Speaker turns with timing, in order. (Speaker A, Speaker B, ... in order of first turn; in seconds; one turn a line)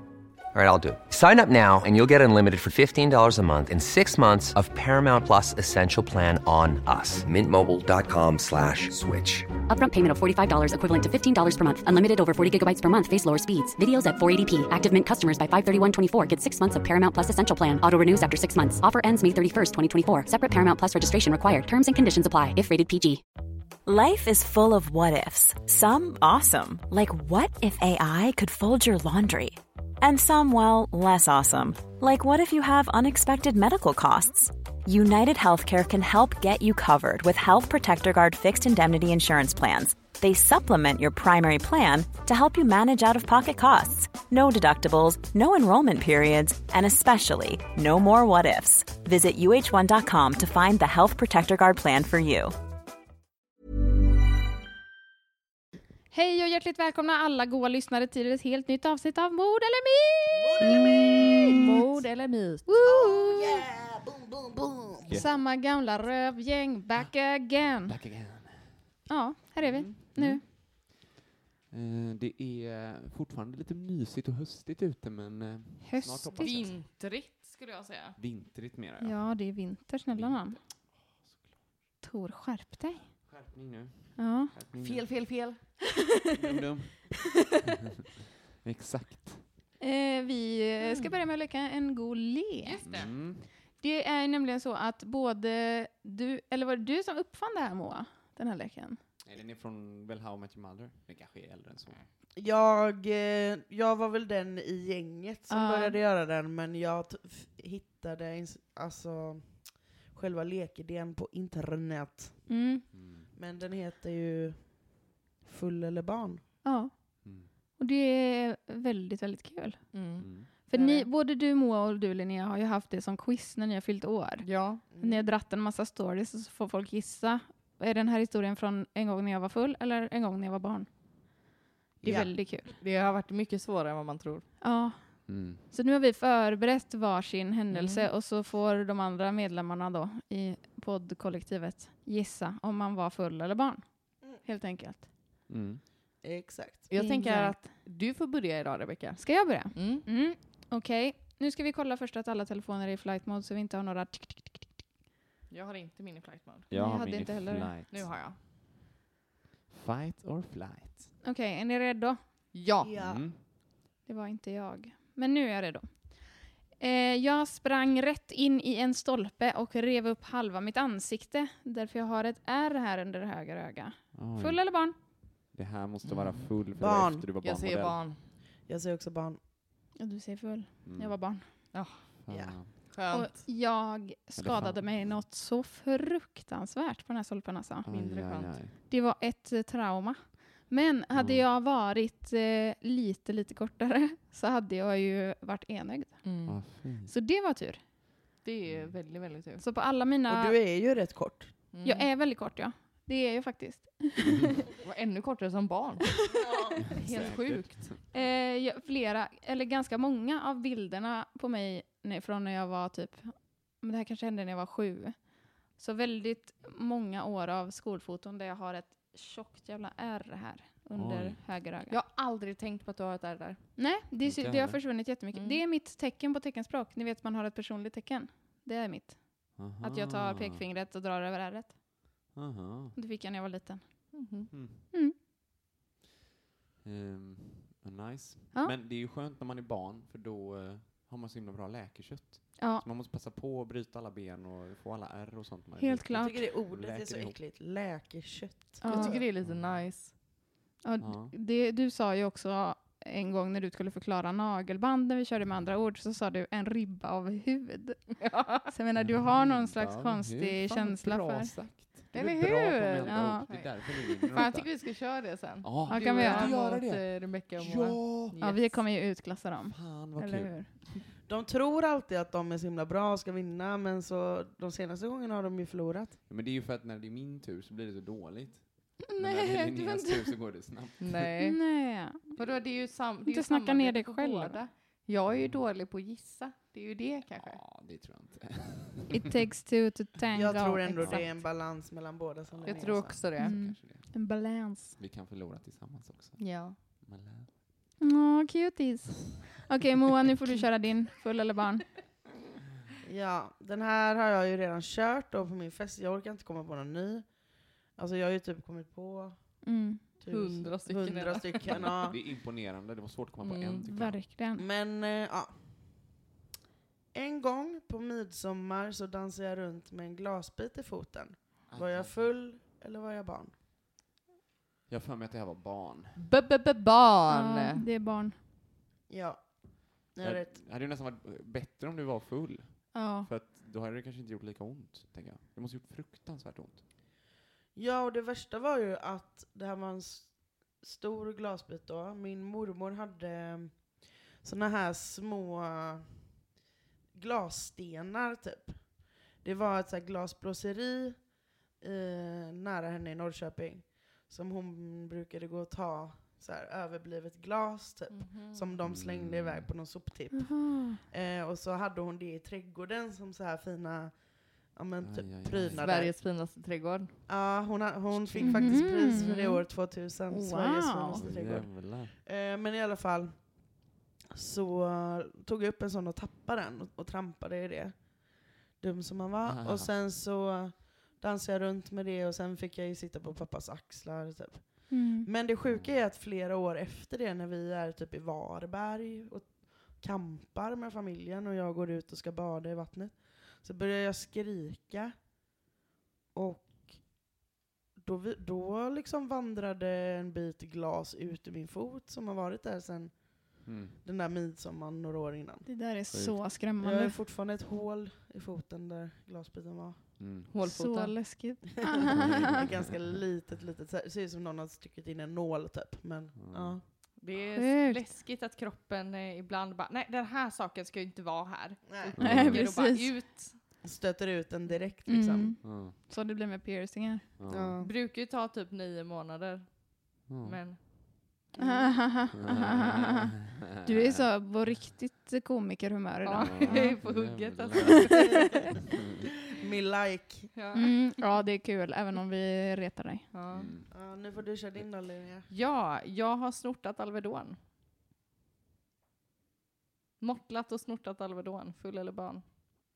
Speaker A: 0.5-9.5
Speaker B: 9.7-23.2
Speaker C: 23.9-52.5
Speaker D: 56.1-60.6
Speaker E: 60.3-61.8
Speaker F: 60.6-62.7
Speaker D: 62.7-63.6
Speaker E: 62.8-65.2
Speaker G: 65.0-65.4
Speaker D: 65.1-68.0
Speaker G: 67.8-69.1
Speaker D: 69.1-70.4
Speaker G: 69.6-70.9
Speaker G: 71.7-76.8
Speaker D: 75.8-76.7
Speaker F: 76.4-78.2
Speaker G: 78.2-79.3
Speaker D: 79.0-80.6
Speaker G: 80.1-81.6
Speaker D: 82.0-83.1
Speaker G: 83.2-85.3
Speaker D: 84.2-84.5
Speaker F: 84.8-85.6
Speaker G: 85.9-87.2
Speaker G: 88.6-89.5
Speaker D: 89.8-92.8
Speaker F: 90.8-91.1
Speaker F: 92.6-93.1
Speaker G: 92.8-93.5
Speaker D: 93.8-99.0
Speaker G: 99.2-102.0
Speaker E: 102.4-112.6
Speaker D: 105.5-106.0
Speaker D: 112.5-112.9
Speaker G: 112.9-113.3
Speaker E: 113.3-116.4
Speaker D: 116.6-130.9
Speaker G: 117.2-117.5
Speaker F: 119.9-121.1
Speaker G: 120.2-120.5
Speaker F: 124.4-124.8
Speaker E: 124.9-125.3
Speaker D: 132.0-132.7
Speaker G: 132.0-132.3
Speaker E: 132.0-132.3
Speaker F: 132.5-134.5
Speaker D: 134.6-145.1
Speaker G: 135.3-135.6
Speaker F: 137.7-138.1
Speaker G: 145.5-145.8
Speaker E: 146.2-146.9
Speaker F: 146.9-150.1
Speaker D: 146.9-147.6
Speaker D: 149.2-154.8
Speaker F: 155.5-156.7
Speaker G: 156.7-158.2
Speaker D: 156.7-157.7
Speaker F: 157.9-158.4
Speaker G: 159.7-161.1
Speaker D: 161.2-162.2
Speaker F: 162.5-162.9
Speaker E: 162.8-163.2
Speaker G: 163.0-163.4
Speaker D: 164.1-175.0
Speaker G: 174.1-174.7
Speaker G: 175.5-178.1
Speaker F: 176.0-176.5
Speaker E: 176.8-177.3
Speaker F: 177.4-178.3
Speaker E: 178.7-179.4
Speaker D: 180.0-181.5
Speaker G: 180.8-181.2
Speaker F: 181.7-182.1
Speaker G: 182.2-182.7
Speaker E: 182.3-182.6
Speaker F: 182.7-183.4
Speaker D: 183.1-187.9
Speaker G: 184.3-185.2
Speaker G: 187.8-188.8
Speaker F: 187.9-188.6
Speaker D: 188.9-197.8
Speaker G: 191.1-191.4
Speaker F: 196.2-196.6
Speaker G: 196.5-197.1
Speaker F: 198.4-199.6
Speaker G: 198.7-199.0
Speaker D: 199.6-200.6
Speaker E: 200.3-201.6
Speaker F: 201.7-202.1
Speaker D: 201.8-204.6
Speaker F: 204.8-206.1
Speaker E: 206.3-206.8
Speaker F: 206.9-207.9
Speaker G: 207.0-208.0
Speaker D: 208.1-222.0
Speaker G: 220.9-221.4
Speaker F: 221.9-223.7
Speaker D: 223.8-231.8
Speaker G: 224.2-224.8
Speaker F: 225.3-225.6
Speaker G: 229.6-230.6
Speaker G: 232.3-233.0
Speaker D: 232.9-234.4
Speaker F: 234.1-234.5
Speaker G: 234.5-234.8
Speaker G: 236.8-247.4
Speaker D: 242.6-242.8
Speaker D: 245.8-246.4
Speaker E: 246.2-249.2
Speaker D: 248.8-249.2
Speaker F: 248.9-250.1
Speaker G: 249.4-250.2
Speaker D: 250.8-261.6
Speaker G: 251.0-251.3
Speaker F: 258.2-258.7
Speaker G: 259.0-268.4
Speaker F: 262.1-268.8
Speaker D: 263.1-263.7
Speaker D: 265.9-266.5
Speaker D: 268.4-270.7
Speaker G: 269.7-270.8
Speaker E: 271.3-276.2
Speaker G: 276.3-281.3
Speaker D: 279.1-280.4
Speaker F: 281.0-281.7
Speaker D: 281.4-282.4
Speaker F: 282.2-287.6
Speaker D: 283.3-284.6
Speaker G: 285.3-285.6
Speaker G: 287.4-289.1
Speaker D: 289.1-291.3
Speaker E: 290.3-293.2
Speaker G: 291.0-291.2
Speaker F: 292.7-293.6
Speaker G: 293.4-294.2
Speaker D: 293.4-295.0
Speaker G: 295.0-297.5
Speaker F: 296.4-296.8
Speaker D: 298.0-301.9
Speaker E: 303.0-312.2
Speaker D: 309.6-310.0
Speaker F: 310.3-311.9
Speaker G: 311.6-314.2
Speaker F: 313.4-313.9
Speaker D: 313.9-314.6
Speaker E: 314.6-316.1
Speaker E: 317.1-323.6
Speaker G: 321.7-322.4
Speaker G: 324.9-326.2
Speaker F: 326.2-327.9
Speaker D: 327.3-328.4
Speaker E: 329.1-330.6
Speaker G: 330.2-336.8
Speaker D: 332.9-333.3
Speaker E: 337.8-346.3
Speaker E: 347.1-366.1
Speaker F: 358.1-358.7
Speaker G: 358.8-359.7
Speaker D: 360.4-361.0
Speaker G: 365.0-365.9
Speaker F: 365.8-367.2
Speaker E: 367.3-395.2
Speaker F: 368.3-369.4
Speaker D: 368.4-369.6
Speaker D: 370.3-371.2
Speaker G: 371.1-372.2
Speaker G: 379.4-379.9
Speaker D: 384.9-385.3
Speaker G: 385.6-386.0
Speaker E: 396.3-397.3
Speaker E: 398.0-405.7
Speaker G: 403.6-404.0
Speaker D: 405.7-407.2
Speaker G: 406.1-406.5
Speaker E: 406.8-410.2
Speaker G: 410.2-410.5
Speaker F: 410.5-411.3
Speaker D: 410.6-412.4
Speaker E: 412.1-416.8
Speaker G: 416.4-416.8
Speaker F: 417.2-423.6
Speaker D: 417.6-418.1
Speaker E: 421.9-422.2
Speaker G: 422.2-422.7
Speaker D: 422.2-423.1
Speaker E: 423.8-425.5
Speaker D: 425.1-427.3
Speaker G: 425.6-426.0
Speaker G: 427.4-427.8
Speaker E: 427.5-427.9
Speaker F: 427.8-430.8
Speaker G: 430.3-430.6
Speaker E: 431.6-432.0
Speaker D: 431.6-433.1
Speaker G: 432.4-433.3
Speaker G: 433.8-434.2
Speaker D: 433.9-437.0
Speaker F: 436.2-438.6
Speaker G: 436.4-438.3
Speaker E: 438.2-438.5
Speaker E: 439.6-440.5
Speaker F: 440.6-440.9
Speaker D: 440.8-443.3
Speaker F: 443.3-443.7
Speaker G: 443.5-443.9
Speaker E: 443.9-445.5
Speaker F: 445.5-447.6
Speaker F: 450.2-452.4